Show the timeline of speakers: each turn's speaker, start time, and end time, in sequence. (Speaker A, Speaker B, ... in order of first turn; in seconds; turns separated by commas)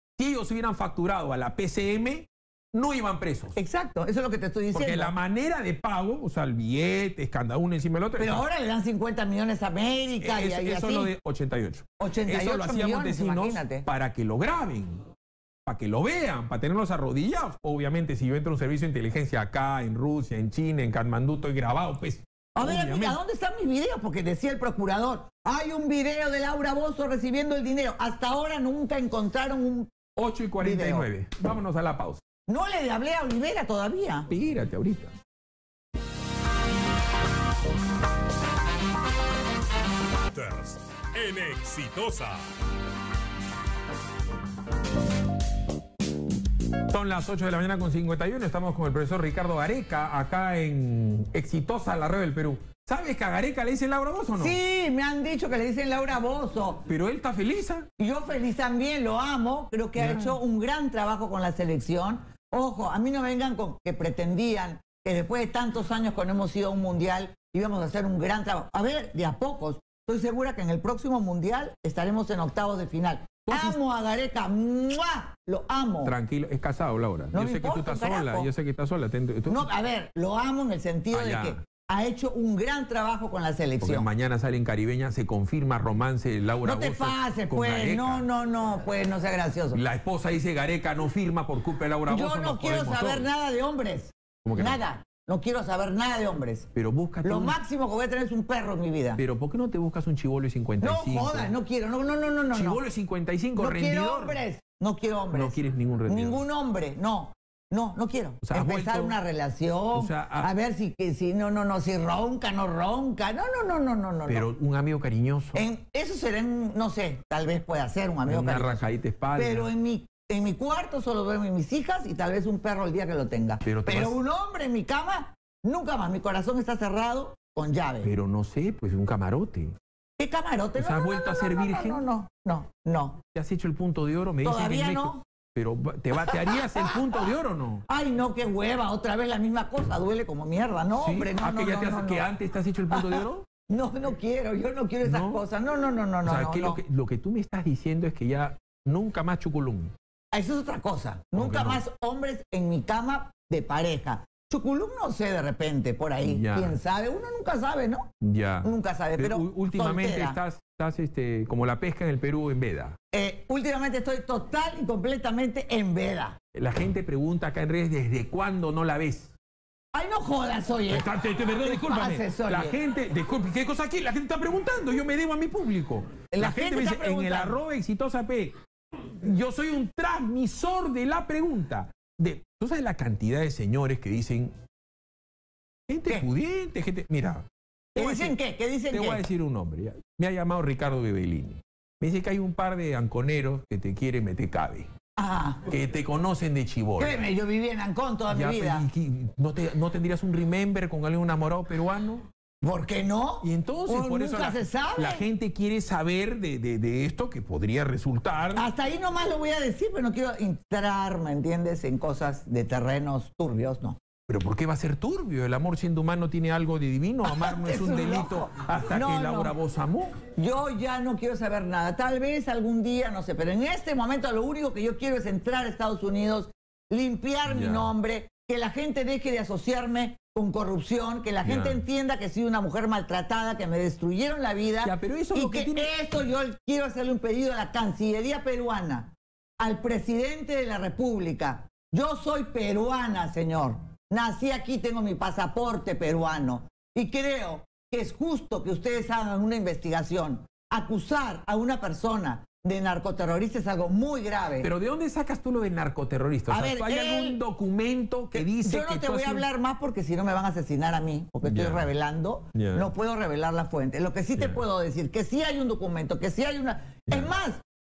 Speaker A: 0.2-3.6, Speaker B: 3.6-5.1, Speaker A: 4.7-8.4, Speaker B: 8.2-11.1, Speaker A: 10.2-15.1, Speaker B: 12.0-13.9, Speaker A: 15.7-23.2, Speaker B: 22.6-29.9, Speaker A: 30.2-32.2, Speaker B: 30.6-31.1, Speaker B: 32.5-34.3, Speaker A: 34.3-35.1, Speaker C: 40.3-42.5, Speaker A: 46.9-54.6, Speaker B: 54.4-56.8, Speaker A: 56.9-57.9, Speaker B: 58.0-76.1, Speaker A: 60.0-60.4, Speaker A: 73.5-73.8, Speaker A: 76.0-79.7, Speaker B: 77.3-78.5, Speaker B: 79.5-84.1, Speaker A: 81.1-81.6, Speaker A: 83.8-88.3, Speaker B: 86.6-89.8, Speaker A: 89.7-93.3, Speaker B: 92.1-96.7, Speaker A: 94.4-94.8, Speaker A: 96.8-97.6, Speaker B: 97.2-99.2, Speaker A: 99.2-101.5, Speaker B: 100.8-102.8, Speaker A: 102.5-104.4, Speaker B: 103.6-105.6, Speaker A: 105.3-106.4, Speaker B: 106.1-114.5, Speaker A: 108.4-109.2, Speaker A: 109.9-110.5, Speaker A: 114.3-115.7, Speaker B: 115.5-128.1, Speaker A: 118.3-119.7, Speaker A: 123.6-124.2, Speaker A: 128.0-129.8, Speaker B: 130.2-133.2, Speaker A: 130.8-132.0, Speaker A: 133.3-137.8, Speaker B: 134.4-135.2, Speaker B: 136.2-137.2, Speaker B: 137.9-142.3, Speaker A: 141.0-143.5, Speaker B: 142.9-146.8, Speaker A: 145.0-145.4, Speaker A: 146.2-149.9, Speaker B: 150.3-158.1, Speaker A: 151.4-151.8, Speaker A: 156.2-156.8, Speaker A: 158.2-163.0, Speaker B: 158.6-160.4, Speaker B: 163.1-166.4, Speaker A: 166.5-169.3, Speaker B: 169.9-172.8, Speaker A: 170.9-184.6, Speaker B: 176.3-177.6, Speaker A: 185.9-188.4, Speaker B: 188.0-189.2, Speaker A: 188.9-194.9, Speaker B: 195.2-195.6, Speaker A: 195.7-197.2, Speaker B: 197.0-198.9, Speaker A: 198.3-202.3, Speaker B: 202.6-205.2, Speaker A: 203.4-208.7, Speaker B: 208.6-214.0, Speaker A: 214.3-220.2, Speaker B: 217.2-219.5, Speaker B: 220.4-254.7, Speaker A: 227.5-227.9, Speaker A: 231.4-231.8, Speaker A: 234.8-235.9, Speaker A: 254.6-259.5, Speaker B: 256.5-257.4, Speaker B: 258.3-267.6, Speaker A: 261.4-261.9, Speaker A: 262.6-262.9